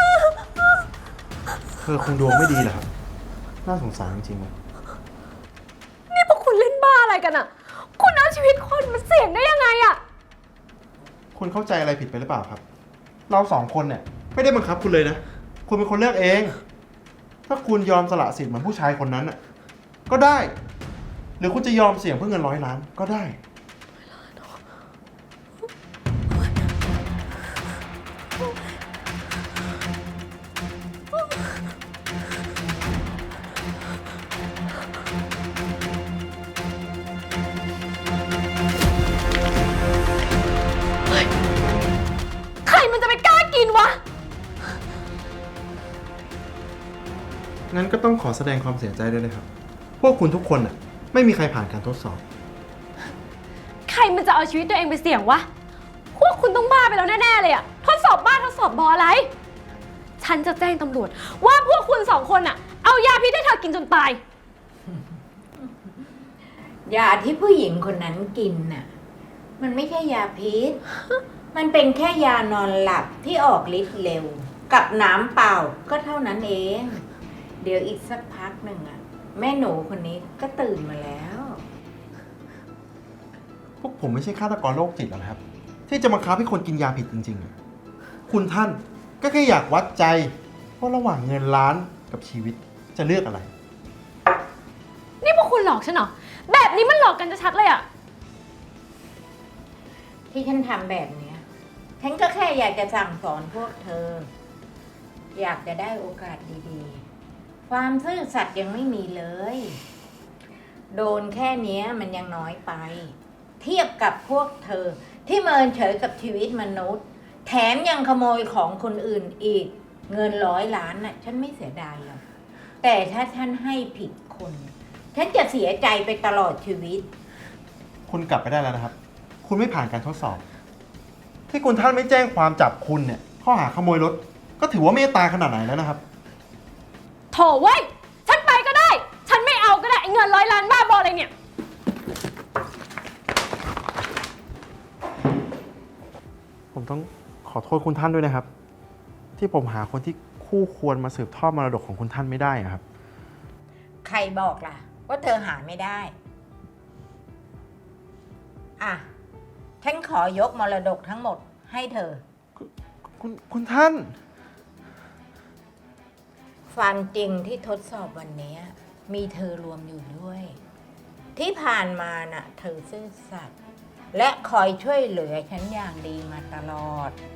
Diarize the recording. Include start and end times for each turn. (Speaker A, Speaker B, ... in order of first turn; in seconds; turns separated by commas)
Speaker A: 1.8-2.9, Speaker A: 3.6-4.5, Speaker B: 6.1-10.0, Speaker A: 11.3-12.6, Speaker A: 13.3-16.6, Speaker A: 17.5-19.4, Speaker A: 20.1-20.5, Speaker A: 21.4-23.4, Speaker B: 42.6-44.0, Speaker A: 47.7-49.5, Speaker A: 50.0-52.2, Speaker B: 53.9-55.5, Speaker B: 56.1-59.3, Speaker B: 60.2-64.2, Speaker C: 66.9-68.9, Speaker C: 69.6-70.8, Speaker C: 71.5-77.0, Speaker C: 77.6-81.6, Speaker A: 83.8-87.5, Speaker A: 88.3-93.5, Speaker B: 95.2-97.8, Speaker C: 100.3-101.4, Speaker C: 102.0-104.3, Speaker C: 105.3-107.0, Speaker C: 107.7-109.8, Speaker C: 110.9-122.2, Speaker C: 122.8-127.1, Speaker A: 128.1-130.4, Speaker A: 131.5-136.0, Speaker B: 137.3-141.3, Speaker A: 146.7-148.5, Speaker A: 149.4-152.8, Speaker C: 154.0-156.1, Speaker C: 158.8-159.1, Speaker C: 159.8-162.2, Speaker A: 162.6-164.1, Speaker C: 166.7-170.6, Speaker C: 171.4-173.5, Speaker C: 174.1-177.2